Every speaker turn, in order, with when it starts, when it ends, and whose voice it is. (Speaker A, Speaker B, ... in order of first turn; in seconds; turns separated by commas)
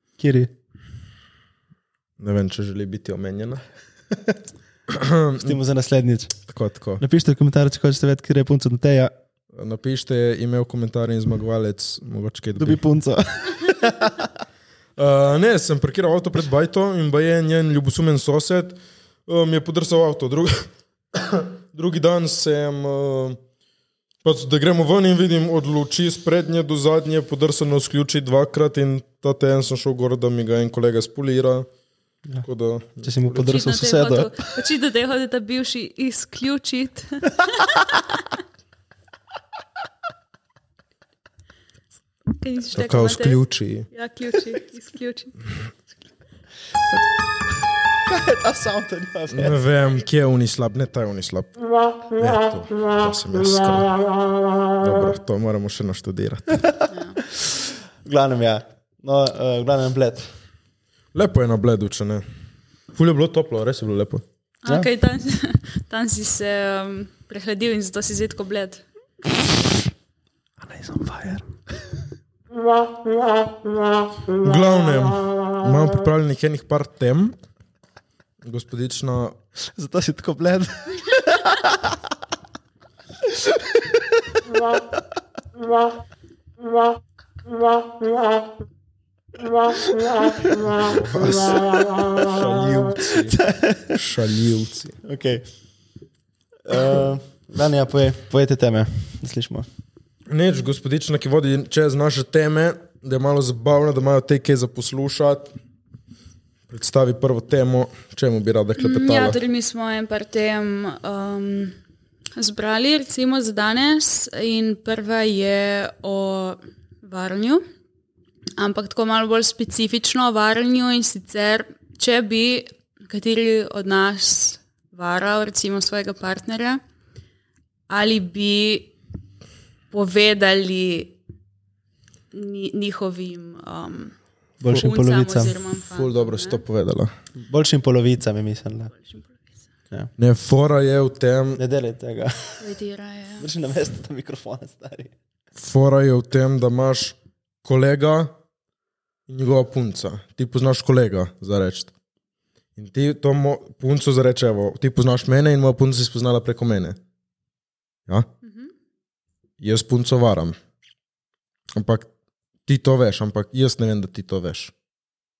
Speaker A: 0.2-0.5, Speaker B: 2.2-3.6, Speaker B: 4.9-5.5, Speaker A: 5.4-6.4, Speaker B: 6.5-7.0, Speaker A: 7.0-9.1, Speaker B: 9.5-12.8, Speaker A: 12.6-14.4, Speaker B: 15.0-23.4, Speaker B: 24.2-31.7, Speaker B: 32.4-33.5, Speaker A: 33.0-34.5, Speaker C: 33.4-38.2, Speaker C: 42.3-45.4, Speaker B: 42.7-43.9, Speaker A: 48.0-49.6, Speaker B: 49.3-51.5, Speaker B: 52.1-53.9, Speaker B: 54.8-56.6, Speaker A: 56.6-60.3, Speaker C: 56.9-57.2, Speaker B: 61.1-62.2, Speaker B: 62.9-64.2, Speaker C: 64.6-68.8, Speaker A: 70.6-71.5, Speaker B: 74.4-77.3, Speaker B: 78.4-79.4, Speaker A: 79.7-82.1, Speaker A: 83.2-85.0, Speaker A: 89.7-91.4, Speaker B: 90.7-95.0, Speaker A: 93.2-94.0, Speaker A: 95.0-95.4, Speaker A: 96.7-99.7, Speaker B: 100.3-105.5, Speaker B: 106.7-109.4, Speaker C: 108.8-111.8, Speaker C: 112.3-117.6, Speaker C: 118.6-126.8, Speaker C: 127.9-128.9, Speaker C: 129.9-131.1, Speaker C: 132.3-134.1, Speaker A: 134.6-135.6, Speaker C: 134.7-136.6, Speaker B: 135.9-137.1, Speaker A: 137.4-138.9, Speaker C: 139.0-139.4, Speaker B: 140.2-141.6, Speaker A: 141.6-142.6, Speaker C: 142.6-143.5, Speaker A: 143.4-145.1, Speaker B: 145.6-148.3, Speaker B: 149.3-151.9, Speaker B: 152.8-157.0, Speaker C: 158.4-158.7, Speaker B: 159.6-160.6, Speaker B: 161.8-162.1, Speaker B: 162.7-164.7